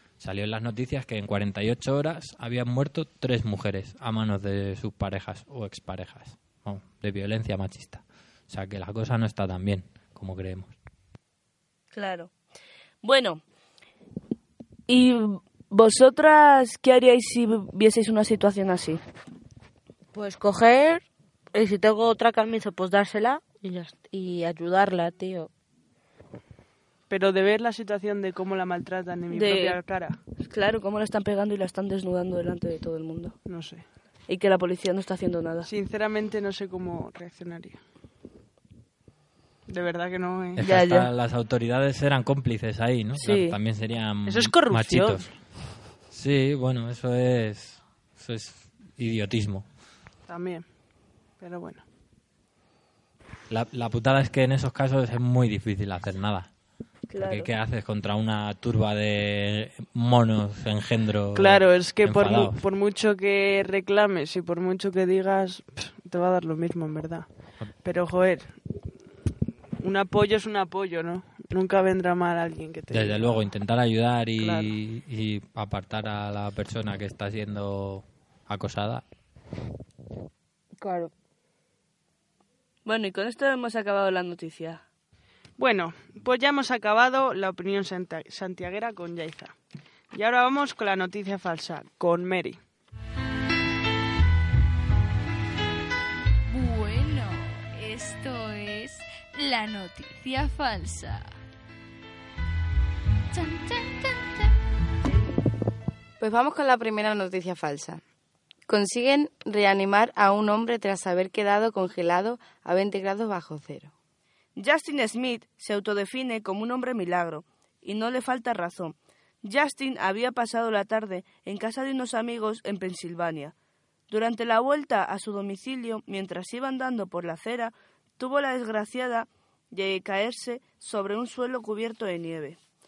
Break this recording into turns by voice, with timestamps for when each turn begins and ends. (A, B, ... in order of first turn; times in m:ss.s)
0:00.2-0:10.7 A
0:11.9-0:12.3 B
0:13.0-0:13.4 B
0:14.9-0:19.0 B
0:20.1-0:25.5 C
0:27.1-0:30.2 D
0:29.3-0:29.8 B
0:30.4-0:33.4 B
0:33.4-0:33.8 D
0:34.3-0:35.7 B
0:35.6-0:37.8 D
0:39.7-0:40.6 D
0:40.6-0:45.3 A
0:40.6-0:41.1 B
0:43.2-0:43.6 B
0:44.2-0:45.3 D
0:46.1-0:49.6 A
0:50.3-0:50.6 D
0:51.4-0:51.8 D
0:53.5-0:56.5 A
0:57.1-0:57.5 B
0:57.2-1:02.6 A
1:01.3-1:07.2 D
1:07.8-1:08.6 D
1:09.8-1:13.4 D
1:12.9-1:19.0 A
1:14.4-1:14.7 D
1:20.8-1:21.1 E
1:22.8-1:24.8 B
1:25.6-1:29.6 D
1:30.1-1:32.6 D
1:36.5-1:41.3 F
1:43.4-1:43.8 F
1:46.2-1:48.0 E
1:48.7-1:53.9 E
1:54.6-2:03.5 B
2:04.1-2:12.6 B